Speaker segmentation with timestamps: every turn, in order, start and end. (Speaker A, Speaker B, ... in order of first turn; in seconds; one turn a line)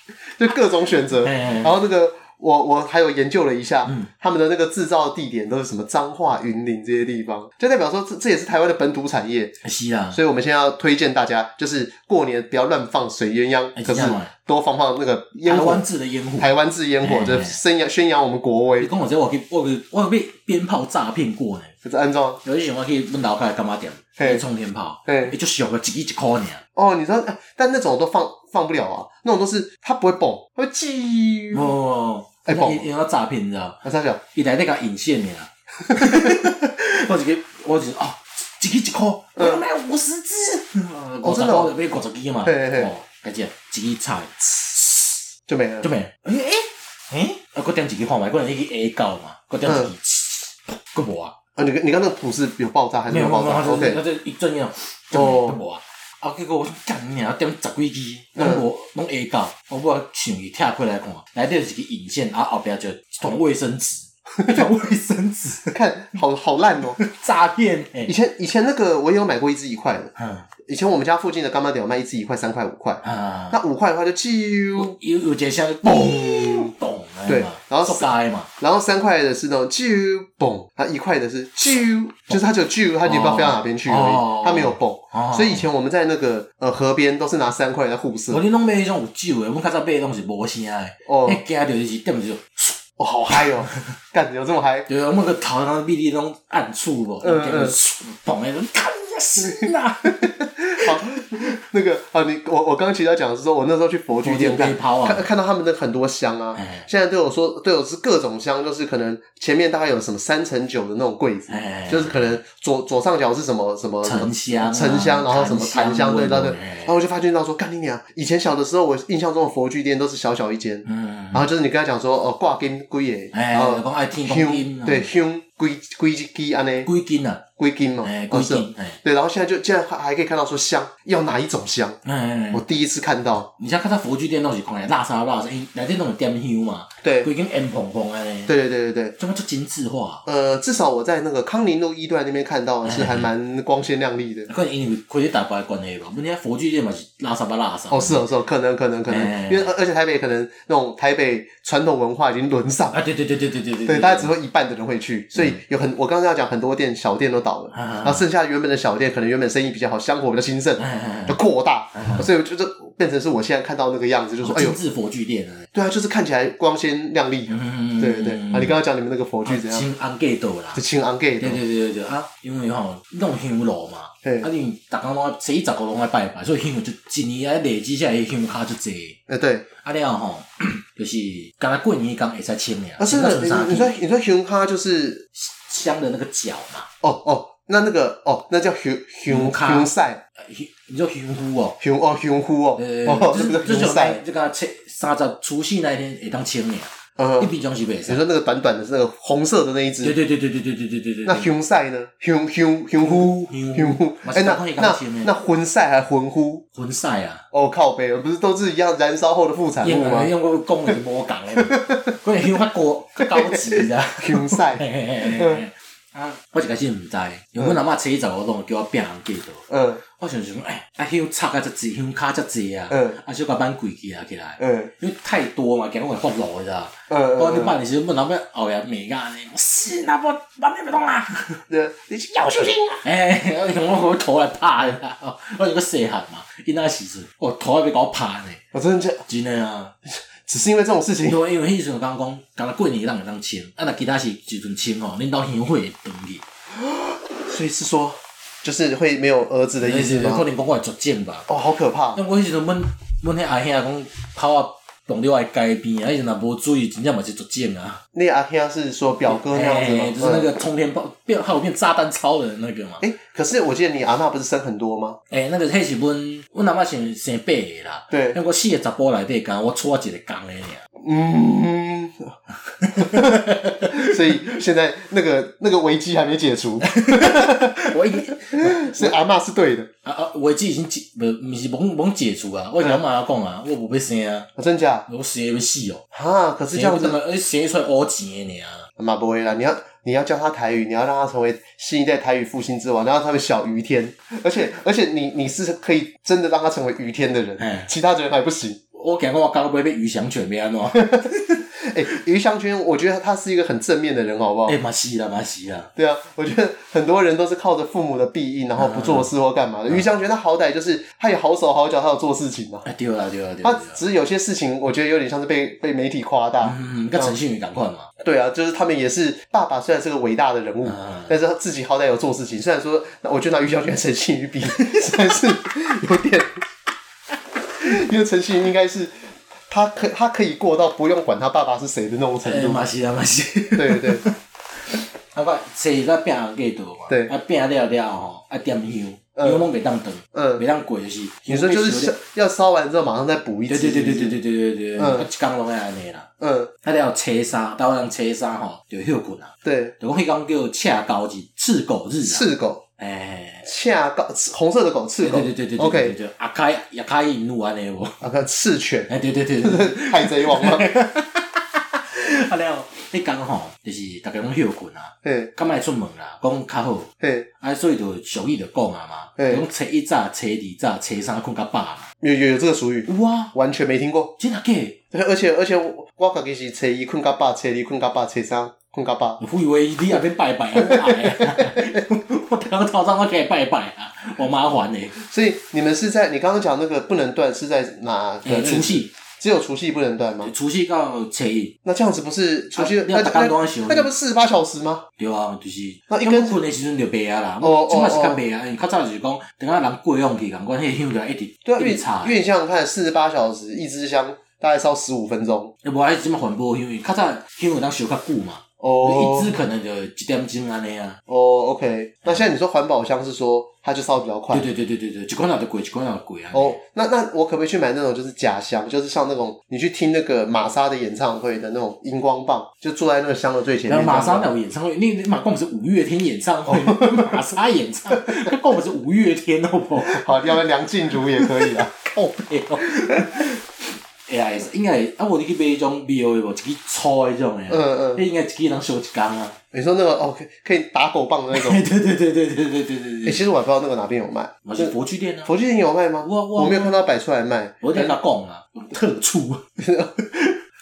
Speaker A: 0.4-9.6
Speaker B: 1.2-1.8
Speaker B: 9.6-10.2
Speaker A: 10.1-15.8
Speaker B: 13.8-14.3
Speaker B: 15.5-16.5
Speaker A: 16.4-18.9
Speaker B: 17.0-17.6
Speaker B: 18.8-21.7
Speaker A: 21.8-22.4
Speaker B: 22.4-26.6
Speaker A: 24.2-24.4
Speaker A: 25.1-25.4
Speaker A: 26.8-31.7
Speaker B: 31.5-33.8
Speaker A: 32.5-32.9
Speaker A: 33.8-34.2
Speaker B: 34.3-45.2
Speaker A: 36.1-36.4
Speaker A: 39.4-39.6
Speaker A: 41.2-41.7
Speaker A: 42.5-42.9
Speaker A: 45.5-45.9
Speaker B: 45.8-51.4
Speaker A: 49.6-49.9
Speaker A: 51.6-54.0
Speaker B: 53.1-65.8
Speaker A: 55.1-55.6
Speaker A: 58.4-58.6
Speaker A: 65.7-67.0
Speaker B: 67.0-68.1
Speaker A: 68.1-70.1
Speaker B: 70.2-70.5
Speaker A: 70.7-75.0
Speaker B: 73.0-73.6
Speaker B: 74.8-78.5
Speaker A: 75.8-76.7
Speaker A: 77.3-88.4
Speaker B: 83.0-85.7
Speaker B: 88.3-92.8
Speaker A: 91.1-91.4
Speaker A: 93.0-94.9
Speaker B: 93.3-93.7
Speaker B: 94.9-101.5
Speaker A: 97.2-97.8
Speaker A: 100.2-126.9
Speaker B: 104.2-105.3
Speaker B: 106.5-106.9
Speaker B: 111.5-112.4
Speaker B: 114.0-117.0
Speaker B: 120.8-121.5
Speaker B: 123.3-125.1
Speaker B: 126.8-127.5
Speaker A: 127.6-132.0
Speaker B: 128.0-129.0
Speaker B: 132.1-132.6
Speaker A: 132.5-133.5
Speaker B: 133.6-138.5
Speaker A: 137.0-137.3
Speaker A: 138.5-139.2
Speaker B: 139.2-140.2
Speaker A: 140.3-144.5
Speaker B: 142.8-143.3
Speaker B: 144.5-148.2
Speaker A: 147.9-153.0
Speaker B: 149.1-149.7
Speaker B: 152.9-154.3
Speaker A: 153.9-164.8
Speaker B: 155.4-155.6
Speaker B: 157.7-158.2
Speaker B: 160.8-161.4
Speaker B: 161.9-162.3
Speaker B: 164.4-165.7
Speaker A: 165.7-169.9
Speaker B: 167.5-168.8
Speaker B: 169.4-170.8
Speaker A: 170.8-171.6
Speaker B: 171.4-179.2
Speaker A: 174.2-174.5
Speaker A: 179.3-179.7
Speaker B: 179.8-183.9
Speaker A: 183.0-185.3
Speaker B: 185.4-186.9
Speaker A: 187.0-190.2
Speaker B: 189.3-191.8
Speaker A: 191.8-194.2
Speaker B: 192.8-198.2
Speaker A: 197.2-197.5
Speaker A: 198.1-200.2
Speaker B: 200.0-201.5
Speaker A: 201.3-206.6
Speaker B: 203.0-205.3
Speaker B: 206.8-207.4
Speaker A: 207.5-210.3
Speaker B: 209.8-231.6
Speaker A: 211.6-212.1
Speaker A: 213.3-215.7
Speaker A: 219.7-220.0
Speaker A: 222.9-223.2
Speaker A: 224.6-224.9
Speaker A: 227.1-227.8
Speaker A: 231.7-233.1
Speaker B: 233.0-238.6
Speaker A: 238.7-239.2
Speaker B: 239.3-239.9
Speaker A: 240.5-241.4
Speaker B: 241.2-246.4
Speaker A: 246.9-250.4
Speaker B: 249.8-251.5
Speaker A: 251.5-252.2
Speaker B: 252.2-258.0
Speaker A: 258.1-260.5
Speaker B: 259.3-263.0
Speaker A: 263.0-265.2
Speaker B: 265.3-270.8
Speaker A: 268.1-268.4
Speaker A: 271.0-272.4
Speaker B: 272.8-274.5
Speaker A: 273.0-279.9
Speaker B: 276.8-279.2
Speaker B: 280.0-284.5
Speaker A: 284.6-285.1
Speaker B: 285.1-286.0
Speaker A: 286.1-287.2
Speaker B: 286.7-288.9
Speaker A: 289.0-298.8
Speaker B: 297.6-297.9
Speaker B: 298.9-301.7
Speaker A: 300.9-304.8
Speaker B: 304.7-305.9
Speaker A: 306.0-312.9
Speaker B: 308.8-309.3
Speaker B: 312.9-314.0
Speaker A: 313.6-317.4
Speaker B: 316.6-318.1
Speaker A: 318.2-326.5
Speaker B: 320.9-321.4
Speaker B: 324.8-325.1
Speaker A: 327.8-332.9
Speaker B: 332.4-334.4
Speaker A: 333.8-334.2
Speaker B: 334.9-342.2
Speaker A: 339.4-339.7
Speaker A: 340.3-340.6
Speaker A: 341.5-344.4
Speaker B: 343.7-346.3
Speaker A: 345.0-345.3
Speaker A: 346.4-346.7
Speaker B: 346.8-353.7
Speaker A: 349.6-349.9
Speaker A: 352.2-352.8
Speaker A: 353.6-356.2
Speaker B: 355.2-358.2
Speaker A: 358.2-359.1
Speaker B: 359.1-372.1
Speaker A: 359.6-360.9
Speaker A: 365.2-365.5
Speaker A: 367.2-367.5
Speaker A: 369.4-369.6
Speaker A: 372.2-374.3
Speaker B: 373.1-373.5
Speaker B: 374.4-375.0
Speaker A: 375.1-379.4
Speaker B: 379.4-385.2
Speaker A: 380.8-382.0
Speaker A: 385.2-390.5
Speaker B: 388.4-389.1
Speaker B: 390.4-391.8
Speaker A: 391.9-395.1
Speaker B: 392.8-394.1
Speaker B: 395.2-402.4
Speaker A: 396.1-396.6
Speaker A: 397.6-398.4
Speaker A: 401.6-405.7
Speaker B: 405.8-411.2
Speaker A: 408.8-409.6
Speaker A: 411.3-414.7
Speaker B: 414.5-416.8
Speaker A: 416.5-424.5
Speaker B: 423.9-430.6
Speaker A: 426.7-427.4
Speaker A: 430.1-431.9
Speaker B: 431.4-439.6
Speaker A: 433.0-433.3
Speaker A: 437.7-438.2
Speaker A: 439.7-441.8
Speaker B: 441.5-443.4
Speaker A: 443.2-444.9
Speaker B: 444.6-445.5
Speaker A: 445.5-448.1
Speaker B: 446.2-447.0
Speaker B: 447.8-449.7
Speaker A: 449.8-450.5